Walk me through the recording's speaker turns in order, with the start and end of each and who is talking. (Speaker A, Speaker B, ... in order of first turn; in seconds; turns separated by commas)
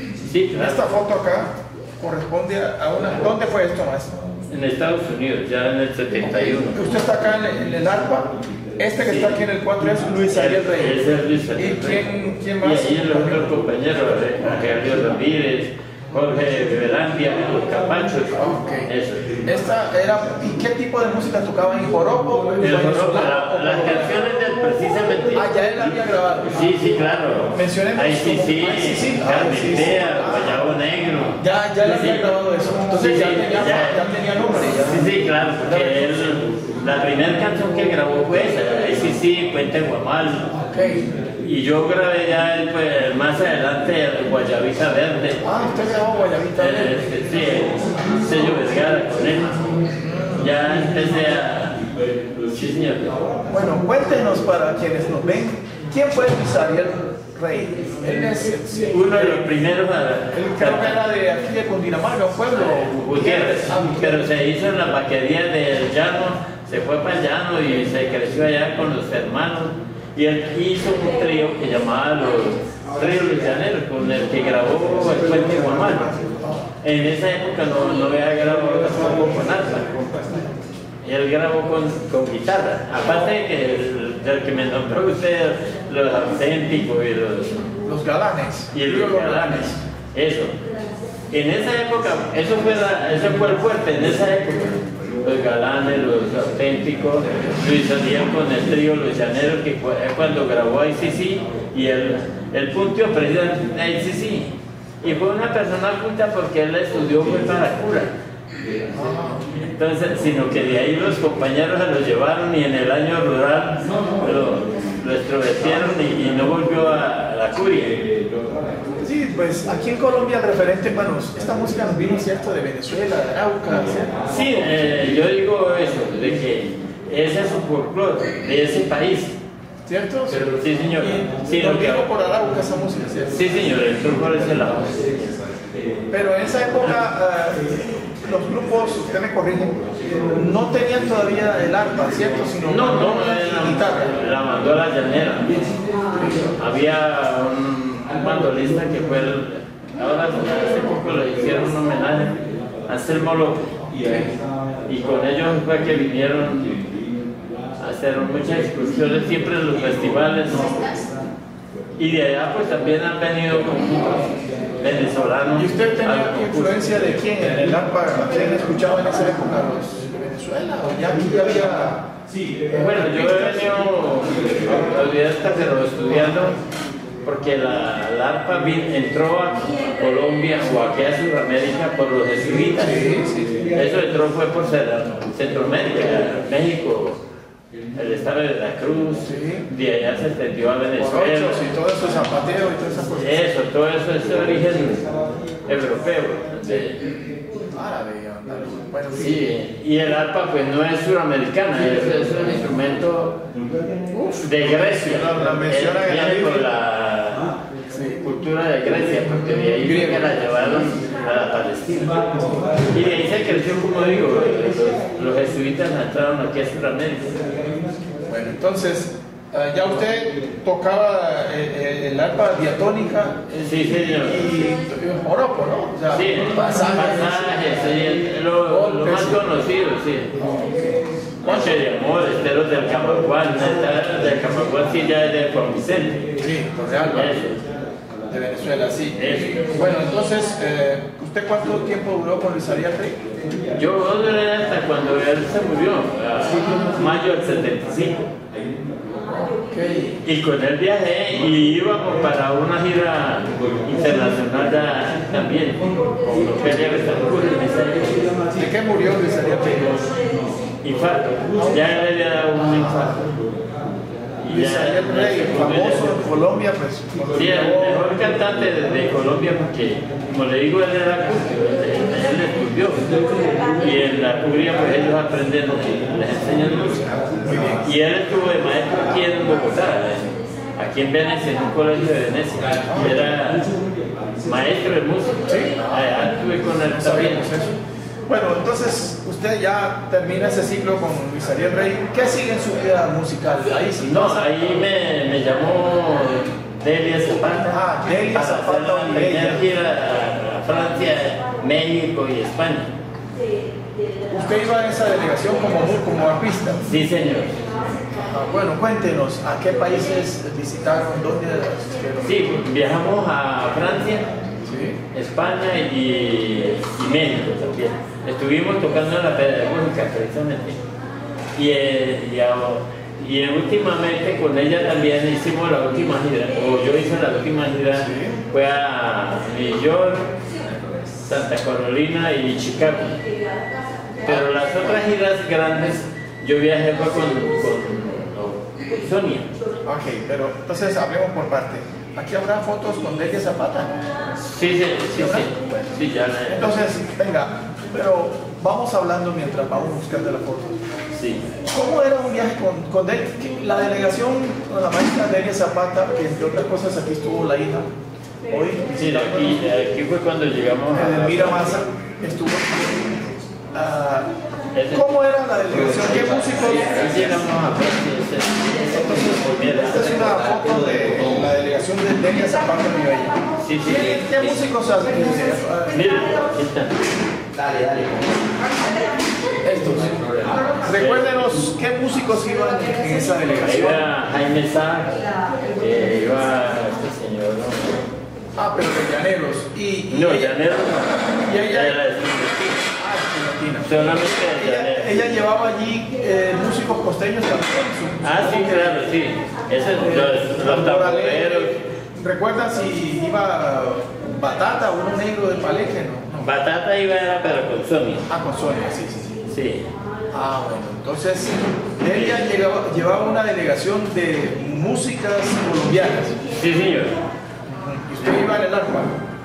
Speaker A: 0.2-0.8, Speaker B: 0.5-4.2, Speaker A: 4.5-6.8, Speaker B: 6.3-13.6, Speaker A: 9.0-9.4, Speaker A: 10.3-12.1, Speaker A: 12.6-19.3, Speaker B: 14.4-14.7, Speaker B: 18.3-18.9, Speaker B: 19.4-24.2, Speaker A: 22.6-25.8, Speaker B: 25.4-26.6, Speaker A: 26.4-40.5, Speaker B: 27.5-30.6, Speaker B: 31.4-35.1, Speaker B: 35.6-36.4, Speaker B: 40.7-41.1, Speaker A: 41.4-45.4, Speaker B: 45.4-47.1, Speaker A: 46.5-49.8, Speaker B: 50.0-50.5, Speaker A: 50.3-51.9, Speaker A: 52.5-53.2, Speaker B: 53.5-59.5, Speaker A: 58.9-61.0, Speaker B: 60.3-64.3, Speaker A: 62.5-76.1, Speaker B: 75.0-76.7, Speaker A: 76.8-79.9, Speaker B: 79.9-80.5, Speaker A: 81.0-87.7, Speaker B: 87.8-89.8, Speaker A: 88.7-90.6, Speaker A: 91.3-108.1, Speaker B: 108.9-109.5, Speaker A: 109.5-118.0, Speaker B: 119.0-124.7, Speaker A: 124.2-129.4, Speaker B: 129.8-130.4, Speaker A: 130.3-132.1, Speaker B: 131.0-133.5, Speaker A: 133.3-135.4, Speaker B: 136.1-144.1, Speaker A: 142.6-145.8, Speaker C: 145.8-146.1, Speaker B: 146.1-146.5, Speaker A: 146.5-153.7, Speaker A: 154.8-156.8, Speaker A: 157.8-161.0, Speaker A: 162.0-167.5, Speaker B: 165.5-172.0, Speaker B: 172.7-174.1, Speaker A: 172.7-176.6, Speaker A: 177.2-183.1, Speaker B: 182.7-183.7, Speaker A: 183.6-187.2, Speaker A: 187.9-191.7, Speaker B: 189.2-189.7, Speaker B: 191.0-193.5, Speaker A: 193.1-195.1, Speaker A: 195.7-197.1, Speaker B: 197.7-199.5, Speaker A: 199.1-203.4, Speaker B: 204.1-206.7, Speaker A: 204.4-207.5, Speaker B: 207.9-208.3, Speaker A: 208.0-217.7, Speaker B: 209.5-210.3, Speaker B: 218.2-227.7, Speaker A: 223.6-224.6, Speaker A: 226.1-230.4, Speaker B: 228.6-229.4, Speaker B: 230.4-231.8, Speaker A: 231.4-236.2, Speaker B: 232.9-233.4, Speaker B: 236.4-237.6, Speaker A: 237.1-237.6, Speaker B: 238.3-243.3, Speaker A: 239.1-240.1, Speaker A: 243.7-248.3, Speaker B: 249.2-250.2, Speaker A: 250.2-258.3, Speaker B: 258.5-260.2, Speaker A: 260.8-263.2, Speaker B: 261.6-262.1, Speaker B: 262.6-263.2, Speaker A: 264.4-266.3, Speaker B: 264.4-268.2, Speaker A: 267.3-277.1, Speaker B: 277.4-277.9, Speaker A: 277.8-283.7, Speaker B: 282.9-283.2, Speaker A: 284.4-287.5, Speaker B: 285.4-294.6, Speaker A: 293.9-302.9, Speaker B: 297.5-299.7, Speaker B: 304.3-306.8, Speaker A: 306.8-307.7, Speaker B: 308.1-312.6, Speaker A: 312.2-314.3, Speaker B: 314.6-315.0, Speaker A: 315.1-320.8, Speaker A: 321.6-330.3, Speaker B: 327.9-328.4, Speaker A: 331.1-333.2, Speaker A: 334.2-339.5, Speaker B: 339.8-344.0, Speaker A: 344.4-346.8, Speaker B: 345.1-345.5, Speaker B: 346.5-350.8, Speaker A: 351.1-351.5, Speaker B: 351.6-357.9, Speaker B: 358.5-359.6, Speaker A: 358.8-361.8, Speaker B: 360.9-364.3, Speaker A: 364.7-365.1, Speaker B: 364.9-367.4, Speaker A: 365.9-370.7, Speaker B: 369.1-376.3, Speaker C: 370.2-371.2, Speaker A: 373.6-374.6, Speaker A: 375.9-377.0, Speaker C: 377.6-378.4, Speaker B: 379.6-384.0, Speaker A: 380.1-381.4, Speaker A: 383.6-388.0, Speaker B: 388.5-392.0, Speaker A: 390.1-392.9, Speaker B: 392.9-398.9, Speaker A: 393.8-395.4, Speaker A: 398.2-401.8, Speaker B: 400.0-406.5, Speaker A: 406.4-408.2, Speaker B: 408.3-409.4, Speaker A: 409.5-409.9, Speaker B: 410.3-416.4, Speaker A: 412.1-412.4, Speaker A: 416.5-417.2, Speaker B: 417.7-419.2, Speaker A: 418.2-418.5